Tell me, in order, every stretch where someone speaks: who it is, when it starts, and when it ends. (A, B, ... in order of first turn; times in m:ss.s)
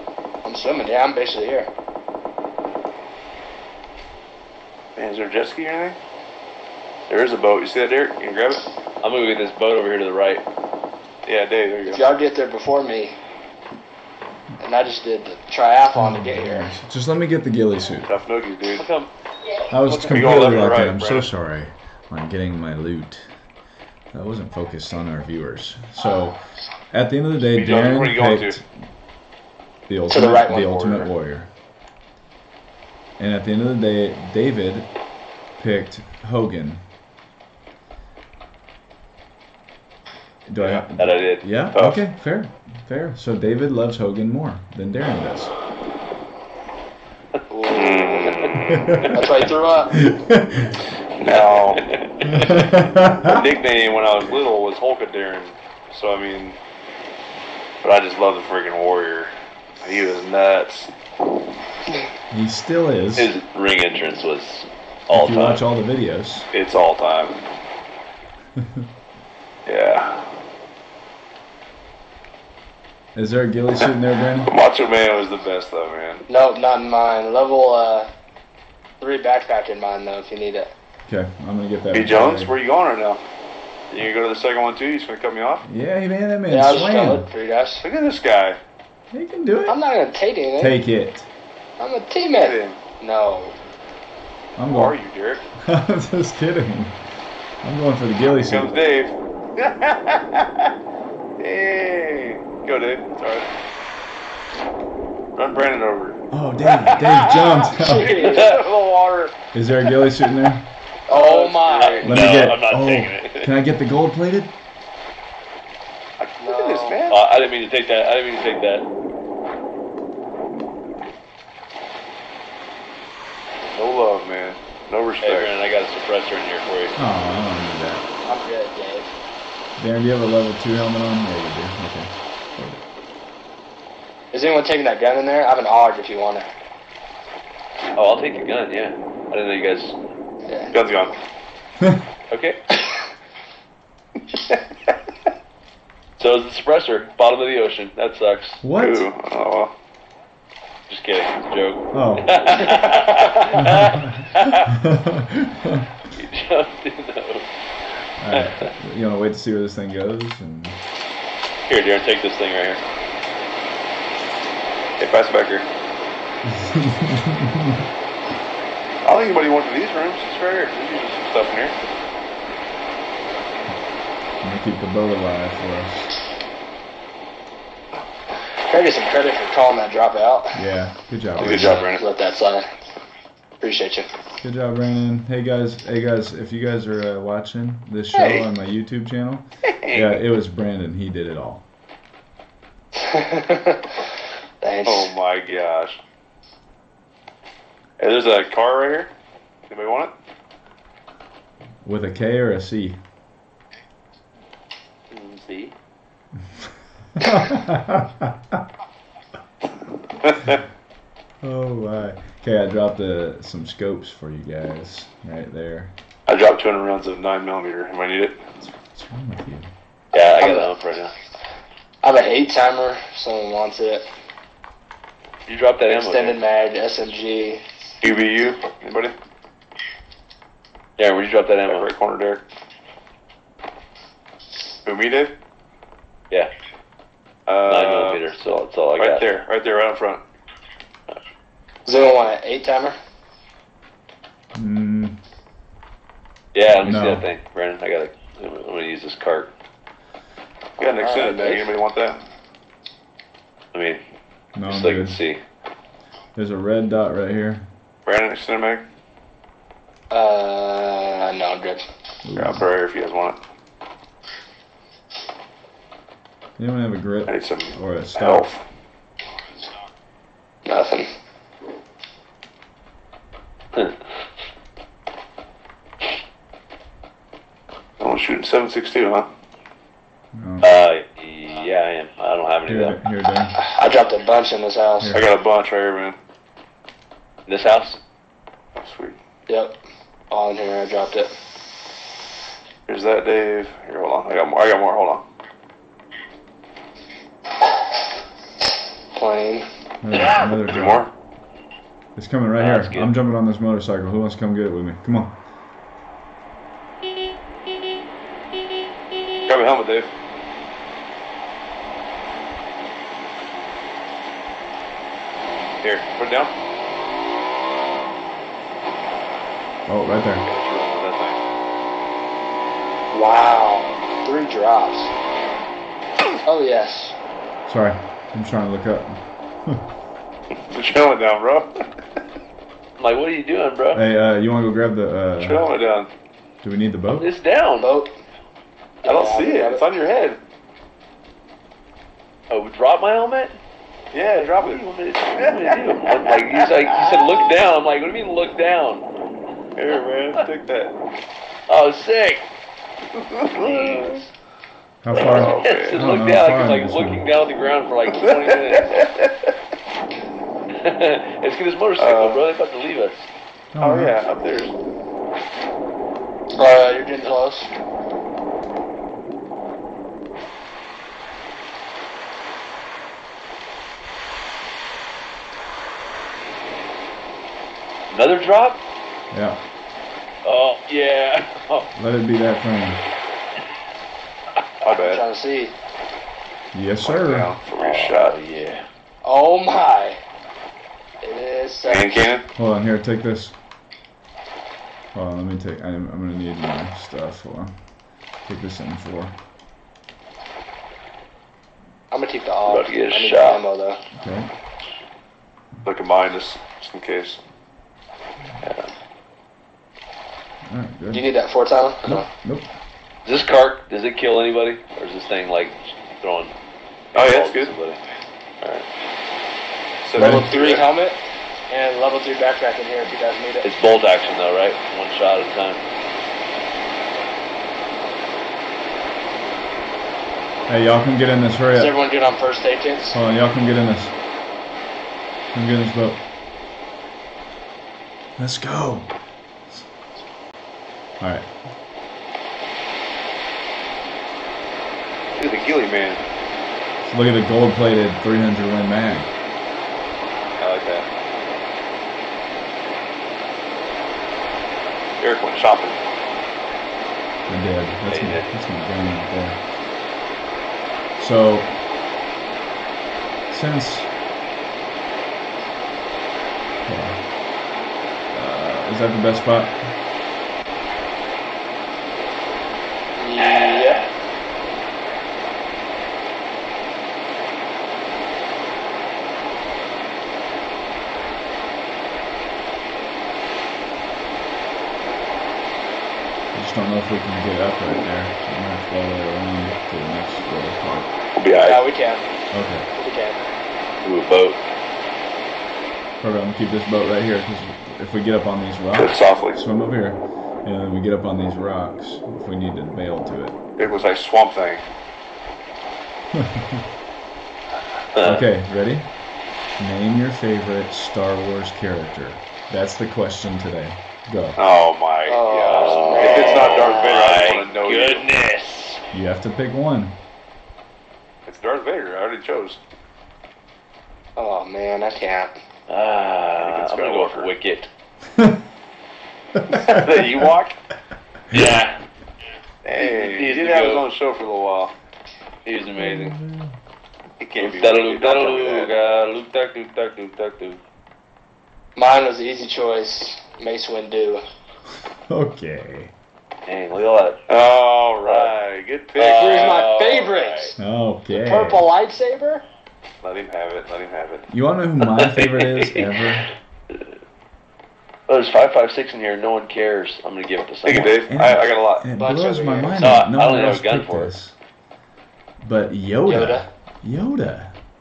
0:00.4-0:01.7 A
0:05.0-0:06.0 B
0:07.1-0:08.6 B
0:09.0-0:10.4 C
0:11.2-0:12.0 B
0:11.9-0:13.1 A
0:14.6-0:16.7 A
0:15.9-0:18.1 D
0:18.0-0:18.8 B
0:18.7-0:19.1 C
0:19.7-0:23.2 D
0:19.8-0:21.2 B
0:24.1-0:26.4 D
0:26.9-0:28.7 D
0:27.4-0:28.6 B
0:29.9-0:31.5 D
0:30.1-0:31.1 A
0:33.2-0:34.9 D
0:35.6-0:36.8 D
0:40.5-0:45.5 D
0:40.6-0:41.4 C
0:41.7-0:42.0 B
0:47.5-0:49.1 B
0:47.7-0:49.2 C
0:48.7-0:49.0 D
0:49.1-0:49.9 A
0:49.9-0:50.8 D
0:51.2-0:51.8 B
0:51.3-0:52.7 C
0:52.2-0:53.4 D
0:53.2-0:56.6 B
0:57.8-1:00.9 B
1:02.3-1:03.3 D
1:03.2-1:05.6 C
1:05.1-1:06.5 D
1:06.5-1:07.4 B
1:08.6-1:08.9 D
1:09.6-1:10.3 B
1:13.1-1:14.5 D
1:14.4-1:16.2 B
1:16.3-1:18.1 A
1:19.0-1:20.7 A
1:21.0-1:22.5 D
1:21.9-1:23.2 B
1:23.9-1:25.6 B
1:25.6-1:27.3 D
1:26.5-1:27.8 A
1:27.8-1:28.6 B
1:29.1-1:29.8 D
1:29.7-1:30.8 A
1:30.6-1:31.3 D
1:31.8-1:33.5 A
1:32.4-1:32.8 B
1:34.6-1:34.9 D
1:34.7-1:35.4 B
1:35.6-1:37.0 D
1:37.6-1:38.7 D
1:38.4-1:40.7 B
1:41.4-1:43.5 B
1:45.4-1:46.2 B
1:46.3-1:48.2 D
1:46.7-1:49.3 B
1:47.0-1:47.3 C
1:47.7-1:48.6 A
1:48.1-1:48.7 C
1:49.5-1:50.7 D
1:51.1-1:52.3 A
1:51.1-1:52.4 B
1:51.8-1:53.5 C
1:52.0-1:54.5 D
1:56.2-1:57.2 B
1:56.4-1:57.0 A
1:57.1-1:58.9 C
2:03.7-2:05.5 B
2:05.2-2:06.9 C
2:07.0-2:08.0 D
2:08.2-2:09.1 A
2:09.8-2:12.8 D
2:14.3-2:16.5 A
2:18.0-2:20.0 C
2:20.7-2:21.1 B
2:22.3-2:22.6 C
2:26.2-2:28.6 C
2:28.6-2:29.1 D
2:28.8-2:29.7 B
2:30.9-2:34.7 C
2:31.9-2:32.6 D
2:32.7-2:33.1 B
2:33.6-2:35.9 D
2:36.1-2:37.5 C
2:38.2-2:40.8 D
2:38.3-2:38.7 C
2:41.7-2:42.8 C
2:45.0-2:45.7 B
2:46.4-2:47.9 D
2:49.0-2:51.7 B
2:54.4-2:56.1 D
2:58.7-3:00.6 A
3:00.5-3:01.8 D
3:01.4-3:02.0 B
3:01.4-3:02.6 A
3:03.6-3:04.1 A
3:04.4-3:11.6 D
3:09.8-3:10.2 B
3:13.0-3:13.9 A
3:14.6-3:15.1 A
3:14.8-3:16.0 B
3:18.0-3:19.1 B
3:19.7-3:20.1 B
3:21.8-3:23.0 D
3:25.1-3:25.7 B
3:27.2-3:28.6 D
3:30.2-3:30.6 B
3:31.4-3:35.9 D
3:36.2-3:38.4 B
3:38.6-3:39.7 D
3:40.1-3:40.7 A
3:40.1-3:41.1 C
3:42.0-3:44.0 A
3:45.5-3:46.4 C
3:45.9-3:47.6 A
3:48.0-3:49.1 B
3:51.0-3:51.9 C
3:51.7-3:52.4 B
3:54.8-3:55.3 B
3:57.5-3:58.2 B
3:57.6-3:59.2 C
3:59.0-4:00.2 B
4:01.8-4:03.0 A
4:04.5-4:05.2 D
4:06.5-4:09.5 C
4:06.8-4:07.2 D
4:10.8-4:11.7 A
4:10.8-4:12.2 B
4:13.7-4:14.0 C
4:14.5-4:15.2 D
4:14.6-4:15.4 C
4:16.3-4:17.7 D
4:18.0-4:18.8 B
4:20.1-4:21.8 A
4:22.2-4:22.6 D
4:22.4-4:23.4 B
4:26.6-4:28.5 D
4:27.3-4:28.6 B
4:30.6-4:31.1 A
4:33.7-4:34.0 C
4:38.0-4:39.3 B
4:40.3-4:40.7 D
4:40.6-4:43.0 C
4:42.6-4:43.5 D
4:43.6-4:45.1 A
4:45.0-4:45.3 D
4:45.1-4:46.2 B
4:47.5-4:48.0 C
4:48.8-4:49.2 B
4:49.5-4:49.8 A
4:50.3-4:51.3 A
4:52.9-4:55.2 B
4:59.1-4:59.6 A
5:00.0-5:01.0 D
5:00.3-5:01.1 B
5:02.2-5:05.3 D
5:02.6-5:03.1 C
5:09.4-5:10.1 B
5:15.8-5:16.5 B
5:19.9-5:20.4 D
5:20.4-5:21.4 B
5:23.1-5:25.1 A
5:26.4-5:27.1 A
5:27.6-5:29.8 D
5:30.5-5:31.8 B
5:33.0-5:34.0 C
5:33.9-5:35.6 D
5:35.4-5:36.1 B
5:36.6-5:37.3 D
5:37.2-5:37.9 C
5:37.8-5:38.1 A
5:39.0-5:39.8 A
5:39.0-5:40.4 B
5:42.5-5:43.6 C
5:44.1-5:44.8 B
5:44.3-5:49.0 C
5:45.4-5:47.5 B
5:49.8-5:50.9 B
5:51.7-5:52.5 C
5:53.1-5:54.2 B
5:53.5-5:54.3 C
5:55.0-5:57.2 D
5:55.1-5:56.0 B
5:55.3-5:58.9 C
5:58.1-5:59.5 B
6:00.8-6:03.3 C
6:02.0-6:02.4 B
6:03.7-6:04.2 D
6:03.8-6:04.7 B
6:06.6-6:07.7 A
6:18.1-6:18.8 C
6:19.3-6:19.6 D
6:20.4-6:21.9 C
6:22.0-6:23.0 D
6:24.8-6:25.2 B
6:24.8-6:25.7 A
6:26.7-6:27.5 D
6:27.0-6:28.4 B
6:27.8-6:28.8 C
6:29.2-6:30.2 A
6:31.2-6:32.2 A
6:31.8-6:32.5 B
6:32.6-6:33.5 D
6:35.1-6:37.7 D
6:38.4-6:39.3 D
6:42.1-6:44.0 A
6:42.7-6:43.6 C
6:44.2-6:44.5 D
6:45.8-6:47.4 B
6:48.6-6:48.9 C
6:50.7-6:51.3 D
6:51.1-6:52.3 A
6:52.0-6:52.7 D
6:53.2-6:56.5 C
6:57.1-6:58.0 C
6:57.1-6:57.7 B
6:58.6-6:58.9 C
7:00.0-7:00.9 B
7:00.1-7:00.5 D
7:00.2-7:01.2 A
7:01.7-7:03.7 A
7:03.6-7:05.8 C
7:10.7-7:12.0 D
7:11.7-7:13.2 A
7:13.1-7:14.1 D
7:15.5-7:16.2 D
7:18.4-7:19.1 D
7:21.2-7:21.5 D
7:25.4-7:26.2 B
7:27.0-7:29.3 D
7:30.6-7:31.0 B
7:35.2-7:36.0 B
7:37.5-7:39.6 D
7:38.1-7:38.5 C
7:41.2-7:41.7 D
7:43.5-7:44.1 D
7:46.8-7:47.3 D
7:48.3-7:49.9 D
7:53.2-7:54.1 A
7:53.4-7:54.1 C
8:06.5-8:11.1 D
8:11.4-8:11.8 B
8:11.6-8:12.2 A
8:12.5-8:12.9 D
8:12.9-8:13.4 A
8:14.0-8:14.6 C
8:16.2-8:23.6 D
8:18.9-8:19.6 B
8:23.8-8:24.8 B
8:26.3-8:26.8 D
8:28.1-8:28.4 C
8:28.2-8:29.0 D
8:29.8-8:34.6 D
8:34.6-8:38.2 B
8:35.3-8:37.2 A
8:35.6-8:39.0 C
8:39.1-8:40.2 D
8:41.4-8:42.8 B
8:44.4-8:45.5 A
8:45.9-8:47.9 C
8:46.6-8:47.5 B
8:48.3-8:48.6 D
8:49.5-8:50.5 D
8:49.7-8:50.8 B
8:51.5-8:51.8 D
8:51.5-8:52.0 C
8:52.8-8:54.9 B
8:52.9-8:54.0 C
8:55.6-8:56.4 C
8:56.0-8:56.8 D
8:57.4-8:59.0 B
8:57.6-9:00.8 C
9:02.0-9:04.4 A
9:05.3-9:06.1 D
9:06.6-9:07.4 C
9:07.5-9:09.8 B
9:08.2-9:08.6 C
9:09.2-9:10.7 C
9:09.3-9:10.7 A
9:10.8-9:11.9 D
9:11.3-9:12.6 A
9:13.2-9:14.5 B
9:14.5-9:16.5 D
9:15.0-9:16.3 C
9:18.3-9:21.2 C
9:20.8-9:22.0 B
9:21.3-9:24.6 D
9:22.2-9:23.2 A
9:23.0-9:24.3 C
9:25.6-9:27.7 D
9:26.3-9:26.6 A